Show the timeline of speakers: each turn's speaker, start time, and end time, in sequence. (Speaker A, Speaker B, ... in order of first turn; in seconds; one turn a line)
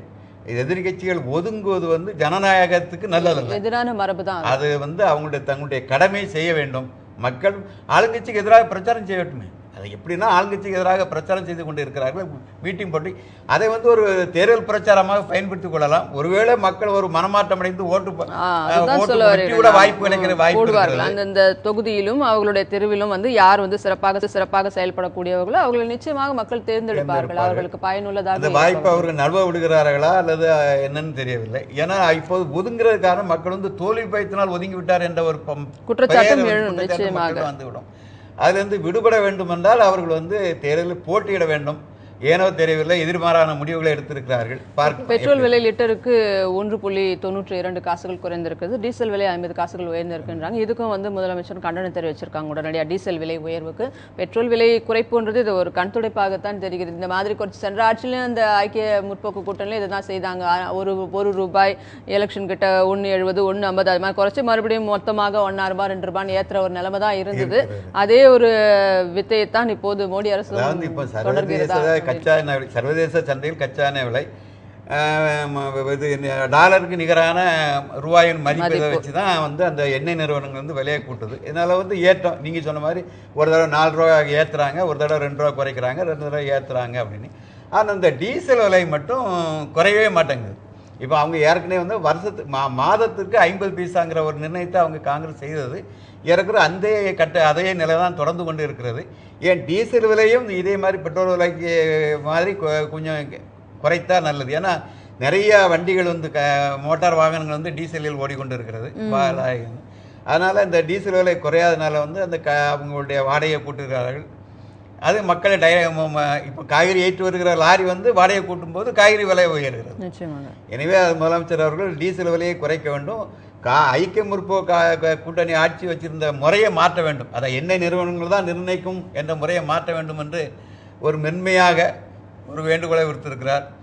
Speaker A: 0.5-3.6
Speaker B: 3.2-4.6
Speaker A: 4.5-21.2
Speaker B: 18.3-29.1
Speaker A: 26.9-27.7
Speaker A: 28.4-37.9
Speaker B: 35.9-37.5
Speaker A: 38.4-45.5
Speaker B: 44.9-72.2
Speaker A: 67.3-67.9
Speaker A: 70.5-74.3
Speaker A: 74.9-114.3
Speaker B: 78.5-79.0
Speaker B: 109.0-109.4
Speaker A: 115.1-120.0
Speaker B: 120.0-120.6
Speaker A: 120.7-130.5
Speaker A: 131.1-131.9
Speaker A: 132.5-133.7